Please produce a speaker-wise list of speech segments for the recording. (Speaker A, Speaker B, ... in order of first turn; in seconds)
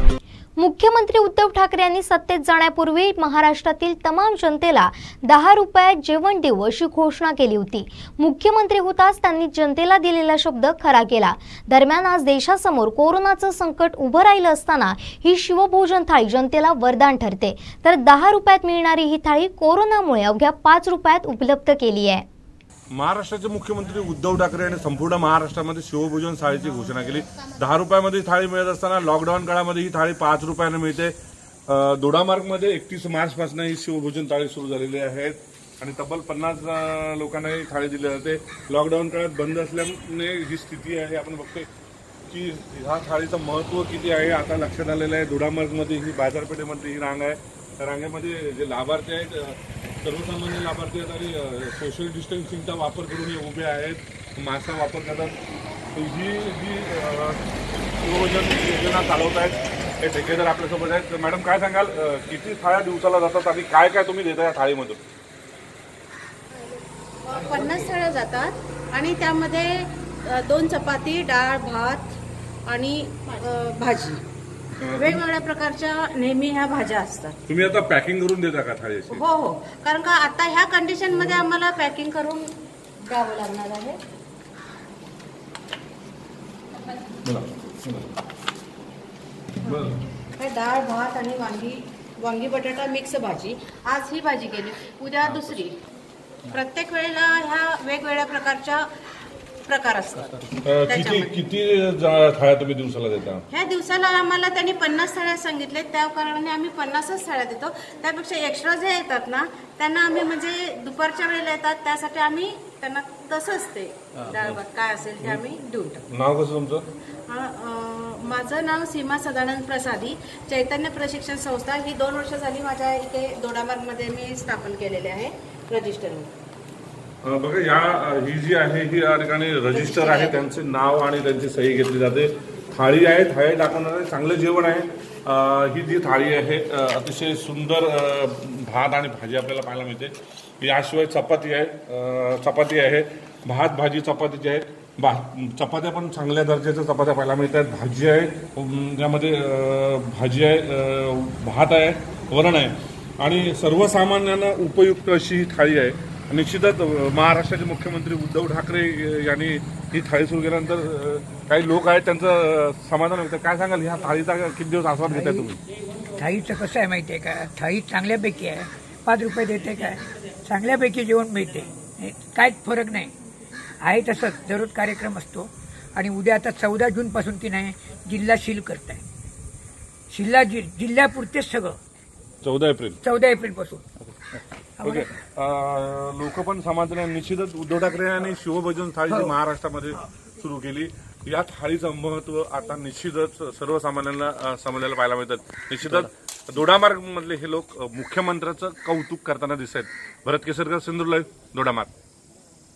Speaker A: 0.6-22.2
Speaker B: 22.9-31.1, 31.7-41.7, 42.3-55.4, 55.9-57.4, 58.0-65.0, 74.8-75.2, 77.5-79.2, 87.2-88.1, 89.6-90.0, 100.6-103.4, 114.3-114.6, 116.1-116.8, 127.2-165.6, 182.4-183.0, 184.8-201.9
Speaker C: 66.5-72.2, 72.7-74.2, 75.0-77.4, 79.1-82.5, 83.1-84.0, 90.4-95.7, 96.5-98.8, 99.7-101.3, 103.5-116.0, 117.3-126.3, 129.7-130.4
Speaker D: 166.2-173.1, 173.8-179.0, 180.1-181.8, 183.1-183.8